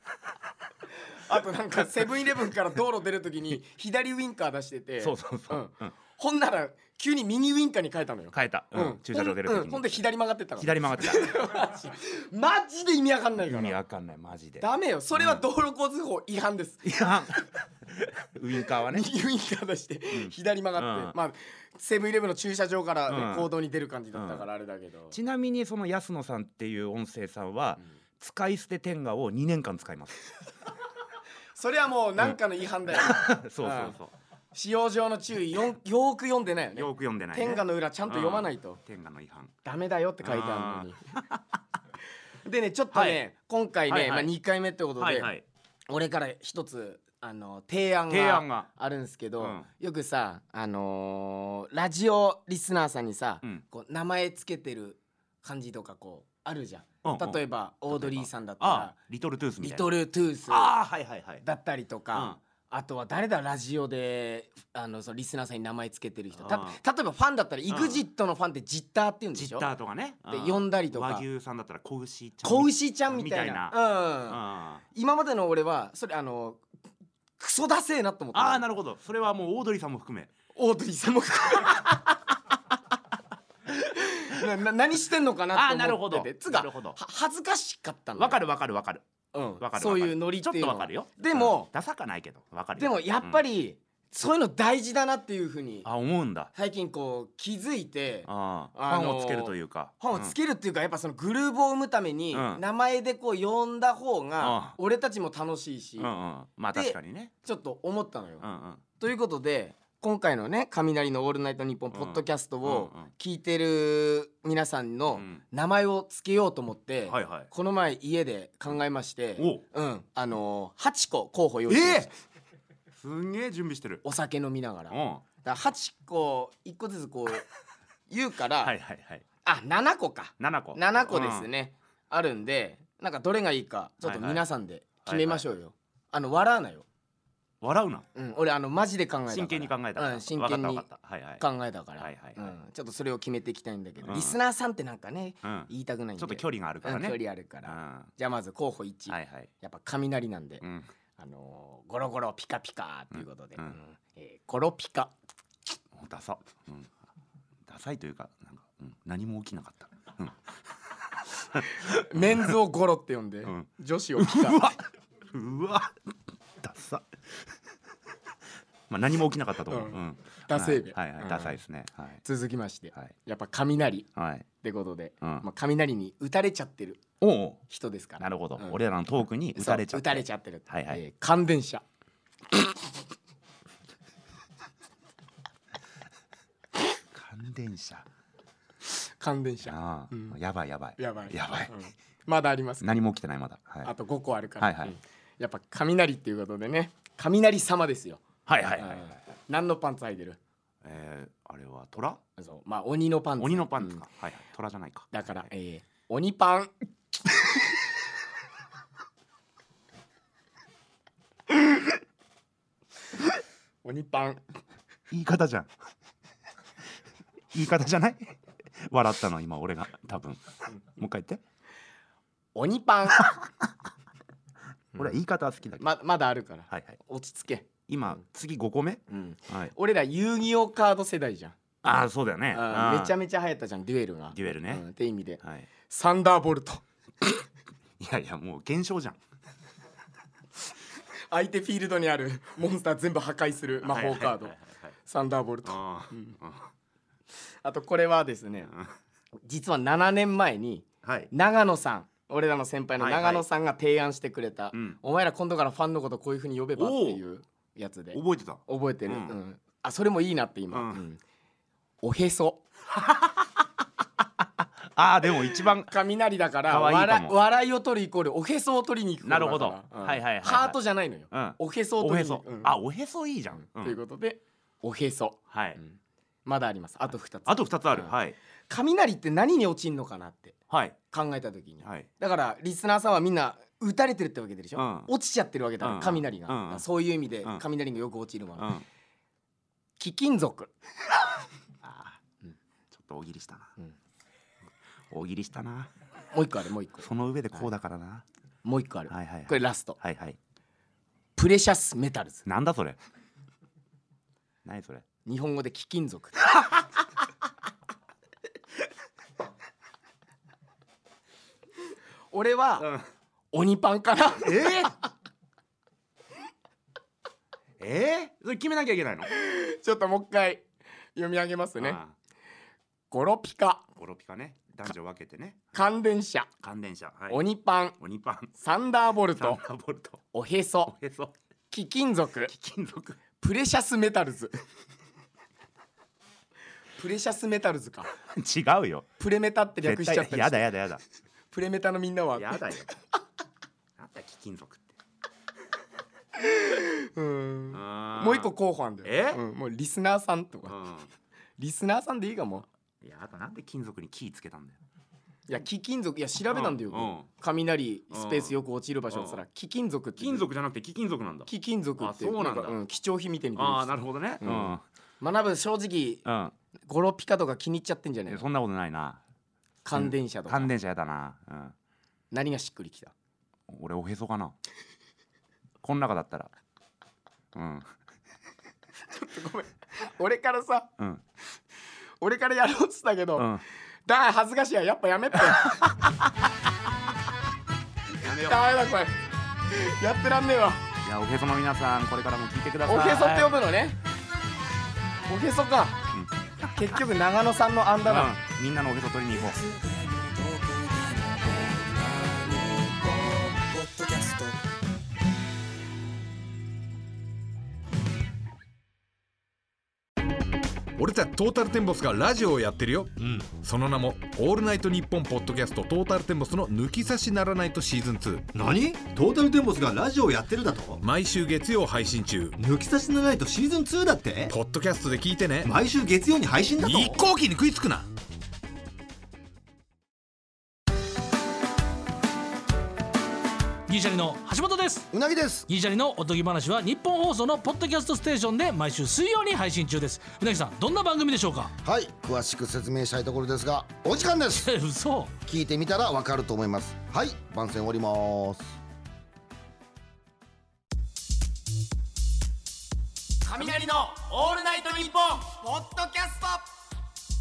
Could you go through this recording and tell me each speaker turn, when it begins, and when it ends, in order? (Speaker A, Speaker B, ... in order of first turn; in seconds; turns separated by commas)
Speaker A: 1.2-13.8, Speaker B: 5.0-5.9, Speaker B: 8.3-9.9, Speaker B: 10.6-11.5, Speaker B: 13.4-15.4, Speaker A: 14.6-16.9, Speaker B: 16.8-17.4, Speaker B: 18.0-19.1, Speaker A: 18.9-25.1, Speaker B: 20.1-21.1, Speaker B: 23.1-23.5, Speaker B: 24.1-24.4, Speaker B: 25.1-30.2, Speaker A: 31.6-34.0, Speaker B: 32.9-34.1, Speaker A: 34.5-38.8, Speaker B: 36.8-39.5, Speaker A: 39.6-41.0, Speaker B: 40.2-41.4, Speaker A: 42.4-45.3, Speaker B: 42.9-43.2, Speaker B: 43.9-44.3, Speaker B: 45.0-45.4, Speaker A: 45.9-58.9, Speaker B: 48.1-48.7, Speaker B: 49.4-49.7, Speaker B: 57.0-59.9, Speaker A: 59.6-60.7, Speaker B: 60.5-61.4, Speaker A: 61.4-69.7, Speaker B: 62.1-62.4, Speaker B: 66.4-66.8, Speaker B: 67.7-68.0, Speaker B: 69.3-74.8, Speaker A: 70.3-71.2, Speaker A: 72.4-74.4, Speaker A: 74.9-76.6, Speaker A: 77.4-78.6, Speaker B: 78.3-80.3, Speaker A: 80.5-82.0, Speaker A: 83.8-88.4, Speaker B: 85.5-87.0, Speaker B: 88.2-89.0, Speaker A: 89.3-91.7, Speaker B: 89.6-93.4, Speaker A: 92.8-95.9, Speaker B: 95.8-96.5, Speaker A: 96.5-106.1, Speaker B: 98.2-100.3, Speaker B: 102.3-102.6, Speaker B: 104.4-104.8, Speaker B: 106.0-107.3, Speaker A: 106.7-108.4, Speaker B: 108.4-108.8, Speaker A: 109.0-122.1, Speaker B: 111.9-113.1, Speaker B: 115.1-115.4, Speaker B: 117.1-117.5, Speaker B: 119.4-119.6, Speaker B: 121.7-122.1, Speaker B: 123.0-124.0, Speaker A: 124.0-127.5, Speaker B: 124.9-125.2, Speaker A: 128.1-128.7, Speaker B: 128.6-129.2, Speaker A: 129.4-136.8, Speaker B: 130.4-131.5, Speaker B: 134.0-134.4, Speaker B: 135.1-135.4, Speaker B: 137.6-138.0, Speaker A: 138.1-140.8, Speaker B: 139.3-141.4, Speaker A: 141.4-150.6, Speaker B: 142.0-142.5, Speaker B: 144.0-144.3, Speaker B: 145.4-148.1, Speaker B: 149.1-149.5, Speaker B: 150.6-150.9, Speaker A: 151.2-155.1, Speaker B: 155.9-156.9, Speaker B: 157.7-160.3, Speaker B: 161.5-162.5, Speaker A: 161.8-164.6, Speaker B: 163.4-164.8, Speaker B: 165.3-165.9, Speaker B: 166.6-167.0, Speaker B: 168.9-172.2, Speaker A: 169.7-170.0, Speaker A: 170.5-171.6, Speaker A: 172.2-174.1, Speaker B: 174.2-174.4, Speaker A: 174.6-177.0, Speaker B: 177.2-177.6, Speaker A: 177.7-178.8, Speaker B: 178.2-181.0, Speaker A: 179.6-181.8, Speaker B: 187.1-188.1, Speaker A: 189.2-190.4, Speaker B: 189.6-191.7, Speaker A: 191.0-192.8, Speaker B: 192.8-193.9, Speaker A: 193.8-200.4, Speaker B: 194.6-194.9, Speaker B: 198.5-199.2, Speaker B: 200.8-202.2, Speaker A: 202.4-204.0, Speaker B: 203.4-205.1, Speaker A: 205.1-206.7, Speaker A: 213.8-214.4, Speaker B: 215.1-215.7, Speaker B: 217.5-220.4, Speaker B: 220.9-221.4, Speaker A: 222.5-223.3, Speaker B: 224.9-225.8, Speaker A: 225.8-227.7, Speaker B: 226.7-226.9, Speaker B: 227.9-229.7, Speaker A: 229.1-231.5, Speaker B: 231.8-233.1, Speaker A: 232.5-236.8, Speaker B: 234.3-234.8, Speaker B: 235.4-235.7, Speaker B: 238.0-239.2, Speaker A: 241.3-244.5, Speaker B: 243.8-244.9, Speaker A: 245.1-246.3, Speaker B: 245.6-246.7, Speaker A: 247.6-248.7, Speaker A: 249.4-261.2, Speaker B: 251.0-251.3, Speaker B: 253.0-253.4, Speaker B: 254.7-255.0, Speaker B: 256.8-257.2, Speaker B: 258.1-259.3, Speaker B: 260.7-261.0, Speaker A: 262.0-262.6, Speaker B: 262.9-263.5, Speaker B: 264.9-265.9, Speaker A: 265.9-272.7, Speaker B: 266.7-267.3, Speaker B: 269.2-270.8, Speaker B: 271.3-274.0, Speaker A: 273.7-278.1, Speaker B: 275.5-275.8, Speaker B: 277.4-278.4, Speaker A: 278.7-280.6, Speaker B: 280.7-281.0, Speaker A: 281.1-288.7, Speaker B: 281.8-282.1, Speaker B: 284.8-285.1, Speaker B: 285.8-286.8, Speaker B: 288.6-288.8, Speaker A: 290.0-290.7, Speaker B: 291.8-292.2, Speaker B: 292.9-293.7, Speaker B: 295.1-295.9, Speaker A: 296.3-297.1, Speaker B: 297.0-298.2, Speaker A: 298.6-300.0, Speaker B: 299.1-300.4, Speaker A: 301.4-302.4, Speaker B: 302.4-303.0, Speaker B: 304.6-305.0, Speaker A: 305.2-306.4, Speaker A: 312.3-312.9, Speaker B: 312.8-313.1, Speaker A: 313.5-314.8, Speaker B: 314.4-314.9, Speaker B: 317.8-319.3, Speaker A: 319.3-322.0, Speaker B: 321.8-322.1, Speaker A: 323.1-323.8, Speaker B: 324.0-325.6, Speaker A: 325.7-326.5, Speaker B: 326.6-327.4, Speaker A: 327.3-327.9, Speaker B: 328.0-328.5, Speaker A: 328.5-329.6, Speaker B: 329.4-330.2, Speaker A: 330.3-330.9, Speaker B: 330.9-331.3, Speaker A: 331.7-332.5, Speaker B: 332.5-333.2, Speaker A: 333.4-334.5, Speaker A: 337.0-338.1, Speaker B: 338.3-339.1, Speaker A: 339.2-340.7, Speaker B: 339.8-341.0, Speaker A: 341.5-342.6, Speaker B: 342.4-342.9, Speaker B: 344.0-344.9, Speaker A: 346.4-350.8, Speaker B: 347.7-348.5, Speaker B: 349.0-349.4, Speaker B: 350.6-351.1, Speaker A: 351.6-352.6, Speaker B: 353.0-354.8, Speaker A: 355.5-360.5, Speaker B: 356.5-357.3, Speaker B: 358.1-358.5, Speaker B: 359.1-359.4, Speaker B: 360.2-362.8, Speaker A: 361.5-366.2, Speaker B: 363.6-364.8, Speaker B: 366.2-366.5, Speaker A: 366.9-368.4, Speaker B: 368.3-369.2, Speaker A: 369.8-370.7, Speaker B: 369.9-371.7, Speaker A: 372.3-373.1, Speaker B: 373.7-374.6, Speaker B: 375.8-376.5, Speaker B: 377.5-377.9, Speaker A: 379.1-380.9, Speaker A: 382.2-383.5, Speaker B: 383.4-383.6, Speaker A: 384.1-385.8, Speaker B: 388.2-388.6, Speaker A: 388.3-389.1, Speaker A: 389.7-390.8, Speaker B: 391.0-393.5, Speaker A: 392.9-393.9, Speaker A: 395.3-396.0, Speaker B: 396.1-396.7, Speaker A: 396.7-398.3, Speaker B: 398.0-399.6, Speaker C: 411.0-418.5, Speaker D: 418.5-421.0, Speaker C: 421.0-422.6, Speaker D: 422.6-424.5, Speaker C: 424.5-425.7, Speaker D: 425.6-427.2, Speaker C: 426.8-428.1, Speaker E: 433.9-435.1, Speaker F: 435.1-435.7, Speaker E: 435.7-441.7, Speaker F: 441.8-444.7, Speaker E: 444.6-445.3, Speaker F: 445.4-448.7, Speaker A: 453.4-456.6